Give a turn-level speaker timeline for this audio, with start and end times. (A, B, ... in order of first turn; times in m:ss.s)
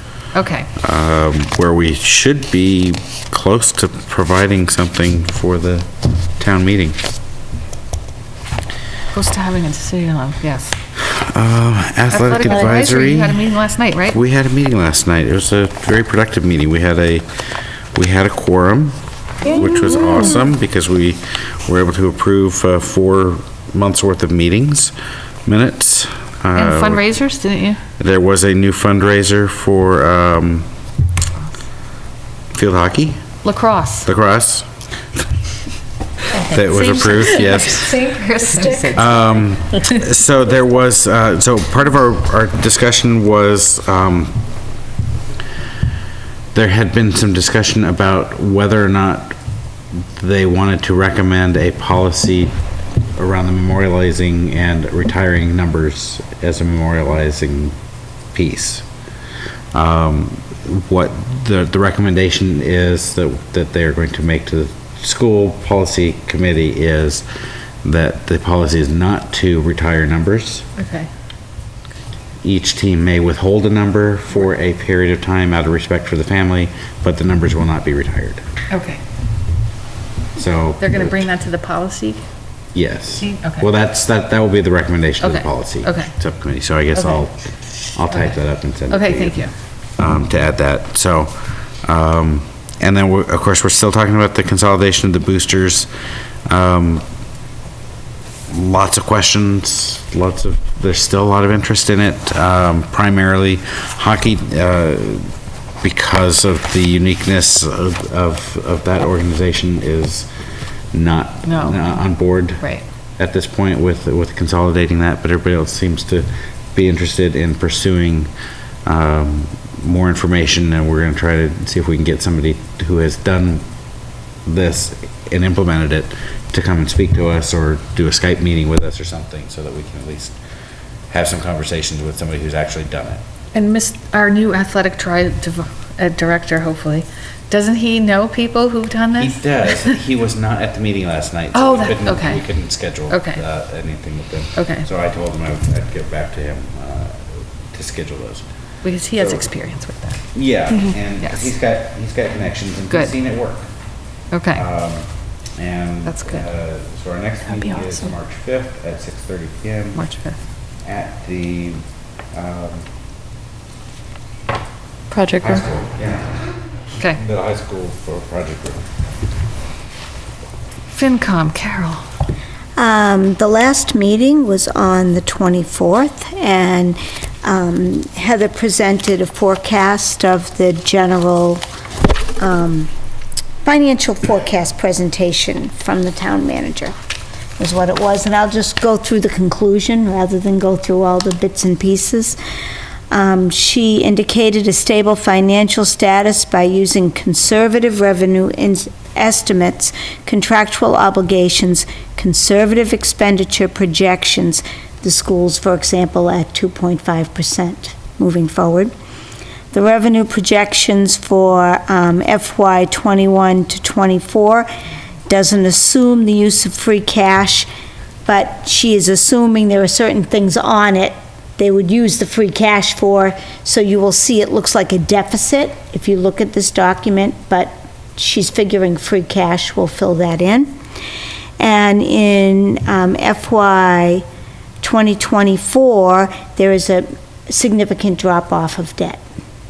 0:00.3-0:00.7 A
0:00.8-0:05.9 B
0:06.4-0:07.0 B
0:09.1-0:10.8 A
0:11.1-0:13.5 B
0:12.1-0:14.2 A
0:14.1-0:17.2 B
0:18.0-0:24.9 B
0:25.5-0:27.0 B
0:26.6-0:27.8 A
0:28.0-0:30.7 B
0:32.5-0:33.2 B
0:33.4-0:34.1 A
0:34.1-0:34.7 B
0:36.3-0:39.1 C
0:36.4-0:38.2 B
0:37.6-0:39.0 A
0:38.9-0:44.4 B
0:46.6-0:49.4 B
0:50.2-0:52.5 B
0:53.2-0:57.8 B
0:58.3-0:58.8 B
0:59.7-1:07.2 B
1:07.8-1:10.7 B
1:10.8-1:11.1 A
1:12.4-1:18.4 B
1:18.7-1:19.0 A
1:20.4-1:21.1 B
1:20.8-1:22.2 A
1:22.8-1:27.4 B
1:23.2-1:23.7 A
1:25.2-1:26.1 A
1:27.0-1:27.2 A
1:28.0-1:29.4 B
1:28.1-1:28.4 A
1:28.9-1:29.5 A
1:30.0-1:31.3 B
1:31.8-1:35.9 B
1:36.5-1:37.0 B
1:38.5-1:45.3 B
1:45.8-1:50.3 B
1:50.9-1:52.6 B
1:51.4-1:52.0 A
1:52.6-1:52.8 A
1:53.2-1:58.3 B
1:58.9-2:03.6 B
2:04.5-2:10.4 B
2:11.1-2:13.2 B
2:13.5-2:20.0 A
2:19.2-2:28.4 B
2:21.5-2:22.5 A
2:23.1-2:23.4 A
2:24.6-2:24.9 A
2:28.8-2:30.2 A
2:29.2-2:29.5 B
2:30.3-2:33.7 B
2:32.9-2:33.2 A
2:34.3-2:34.6 A
2:34.5-2:40.0 B
2:36.1-2:36.4 A
2:39.9-2:40.4 A
2:40.8-2:41.8 B
2:42.3-2:42.9 B
2:45.1-2:45.6 C
2:45.3-2:46.3 B
2:47.1-2:48.8 B
2:50.9-2:52.0 A
2:52.8-3:01.6 D
3:02.4-3:02.9 D
3:03.6-3:07.0 D
3:07.6-3:12.4 D
3:13.1-3:28.9 D
3:29.7-3:34.7 D
3:35.3-3:37.7 D
3:38.3-3:50.7 D
3:51.6-3:54.2 D
3:54.8-3:59.2 D